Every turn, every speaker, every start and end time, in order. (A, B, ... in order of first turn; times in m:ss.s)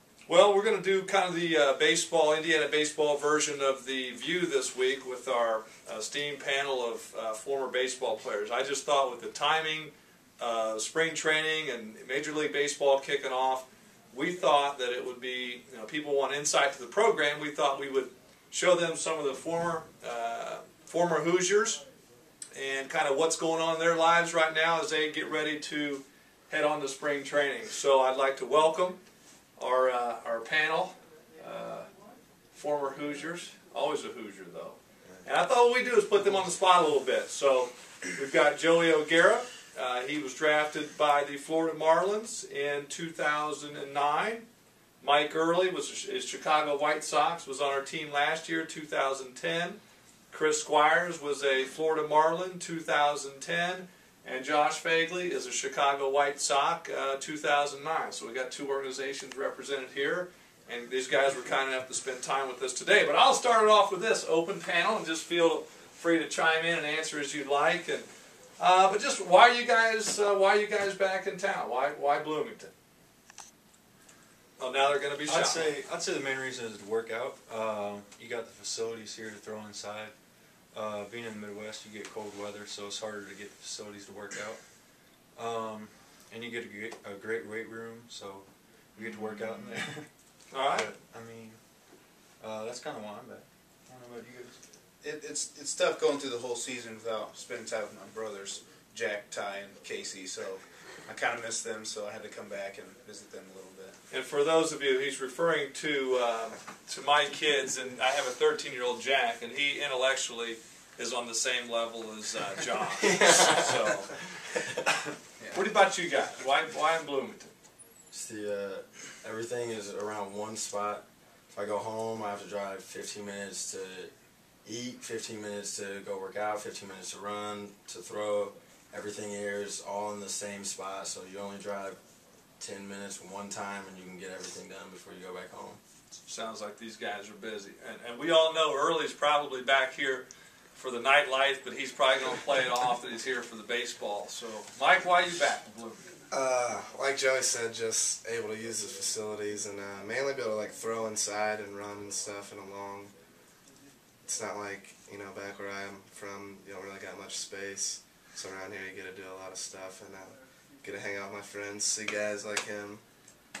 0:00.3-0:21.8 A
0:22.5-0:29.0 A
0:29.6-0:31.9 A
0:32.5-0:44.5 A
0:45.0-0:49.8 A
0:50.3-1:08.0 A
1:08.6-1:12.7 A
1:14.6-1:15.7 A
1:15.2-1:20.1 B
1:20.7-1:24.6 B
1:25.4-1:30.1 B
1:30.5-1:30.9 A
1:30.7-1:31.6 B
1:32.4-1:34.6 B
1:35.0-1:44.0 C
1:44.1-1:54.2 A
1:53.0-1:53.9 D
1:55.4-1:55.6 C
1:55.5-1:57.5 A
1:58.1-2:04.1 D
2:04.6-2:12.0 D
2:12.6-2:15.8 D
2:16.2-2:26.1 A
2:26.3-2:33.1 E
2:34.2-2:43.0 E